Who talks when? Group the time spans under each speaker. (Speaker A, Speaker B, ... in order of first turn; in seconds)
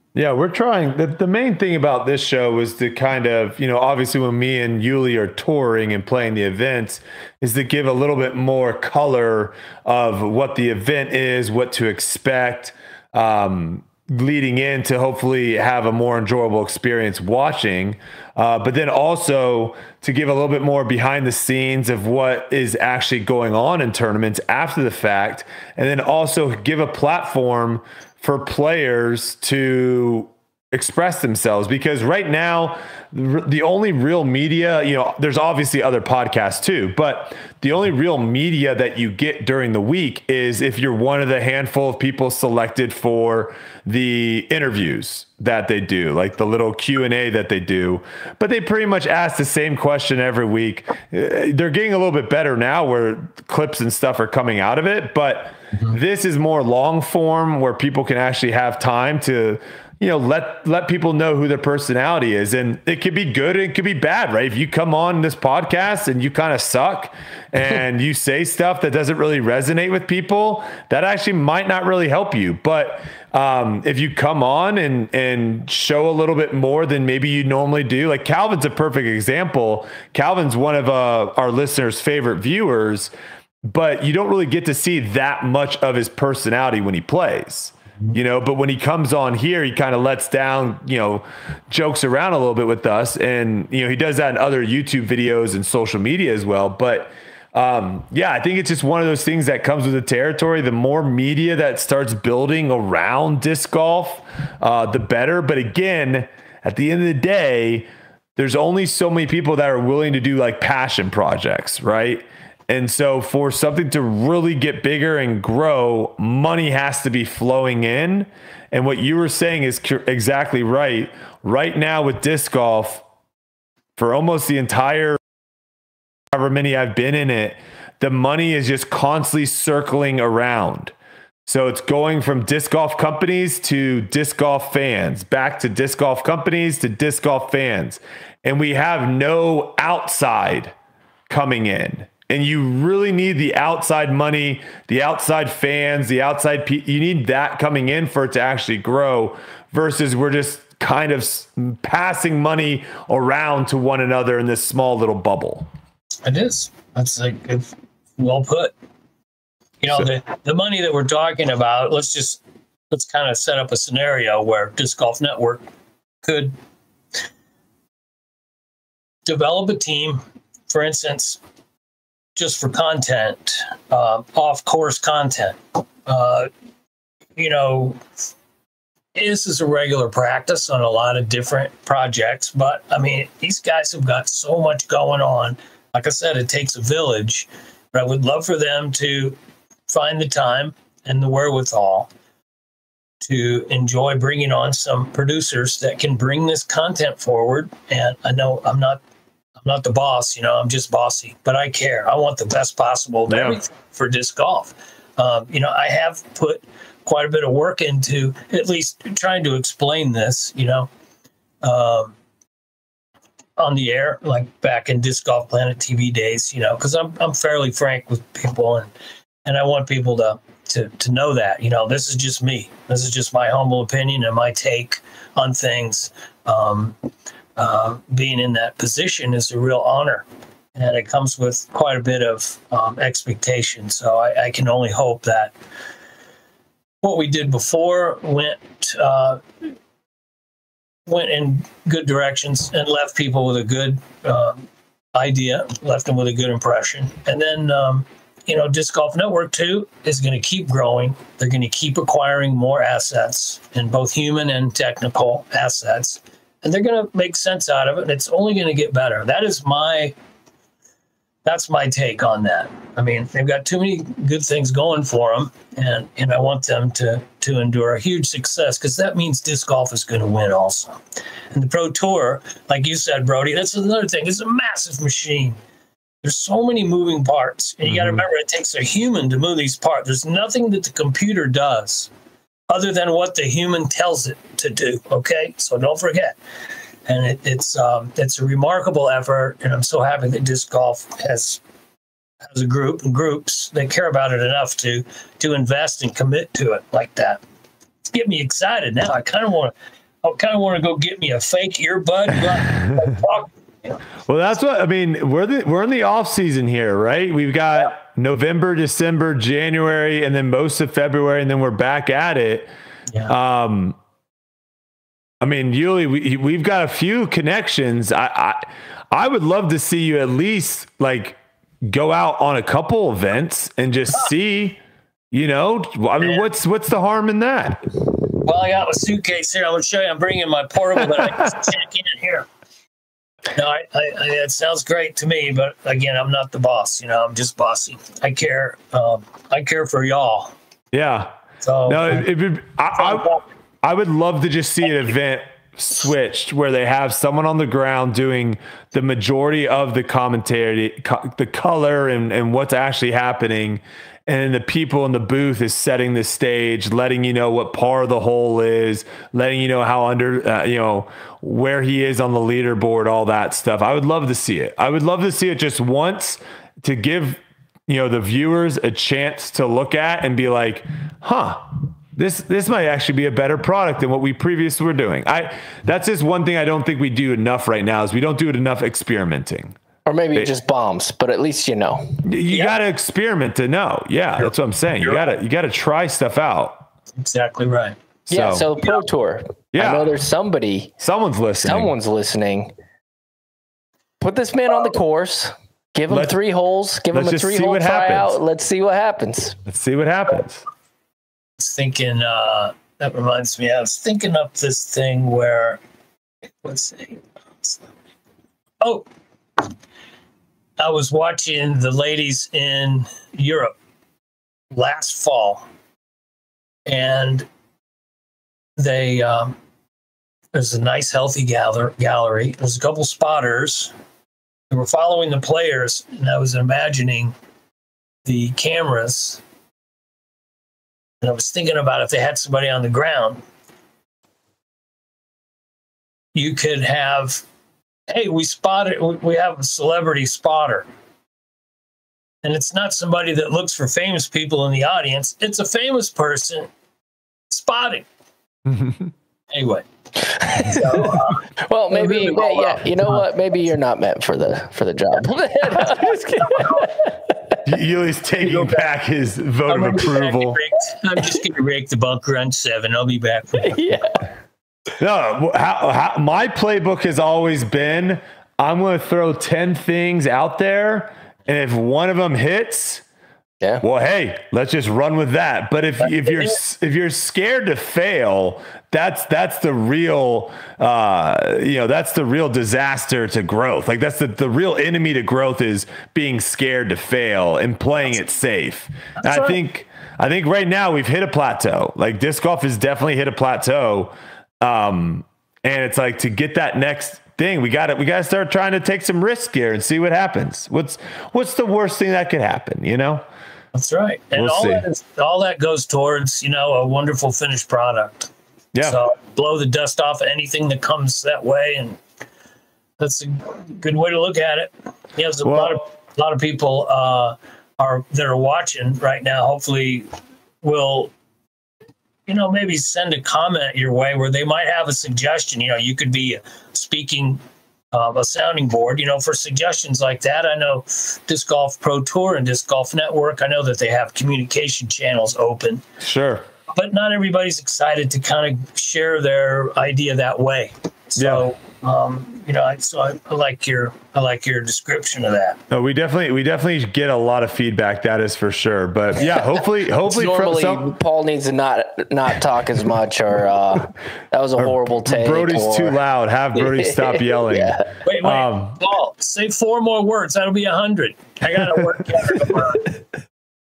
Speaker A: 0.1-83.1, 83.6-123.0, 124.0-125.2, 126.3-130.9, 131.4-140.7, 141.3-155.7, 203.3-203.6, 277.9-278.2, 304.3-312.7, 313.3-314.0, 315.4-324.8, 325.3-327.8, 340.9-341.3, 341.9-379.8, 382.2-386.8, 388.3-388.7, 389.7-390.1, 391.0-391.9, 396.1-396.4, 397.1-398.4, 399.6-400.6, 448.7-449.1, 457.6-460.6, 465.0-473.0, 473.8-503.2, 504.3-504.9, 515.4-515.8, 536.0-536.5, 541.2-541.4, 545.7-550.9, 554.6-558.8
Speaker B: 156.2-158.7, 159.8-165.6, 166.2-166.5, 169.2-171.4, 172.3-176.5, 177.4-178.0, 179.1-189.3, 189.9-192.1, 193.2-199.0, 199.6-210.9, 211.6-212.1, 213.6-218.9, 219.4-226.9, 227.6-230.2, 230.8-235.5, 237.0-239.7, 241.1-260.1, 261.4-271.0, 271.5-275.6, 276.2-282.1, 282.7-286.3, 287.1-291.6, 292.4-297.4, 298.1-299.7, 300.2-304.0, 328.4-332.4, 333.5-340.5, 341.6-342.2, 343.0-343.4, 385.0-385.3, 387.2-387.9, 401.6-405.8, 406.6-407.9, 410.8-413.7, 414.7-415.6, 416.9-417.5, 418.8-419.6, 420.5-423.9, 424.7-427.3, 428.2-429.4, 431.2-433.4, 436.3-437.4, 438.1-440.9, 442.4-446.7, 447.5-448.1, 449.5-453.2, 455.8-456.9, 458.4-458.9, 459.7-463.8, 476.0-476.6, 489.2-489.6, 503.7-508.3, 508.8-512.0, 513.0-520.1, 520.6-521.1, 522.3-527.4, 527.9-535.8, 536.7-545.6, 558.0-563.0
Speaker C: 380.1-382.2, 388.3-390.9, 391.6-392.7, 394.2-399.6, 450.6-451.1, 451.6-457.3, 463.6-464.1, 549.2-556.0, 556.5-557.9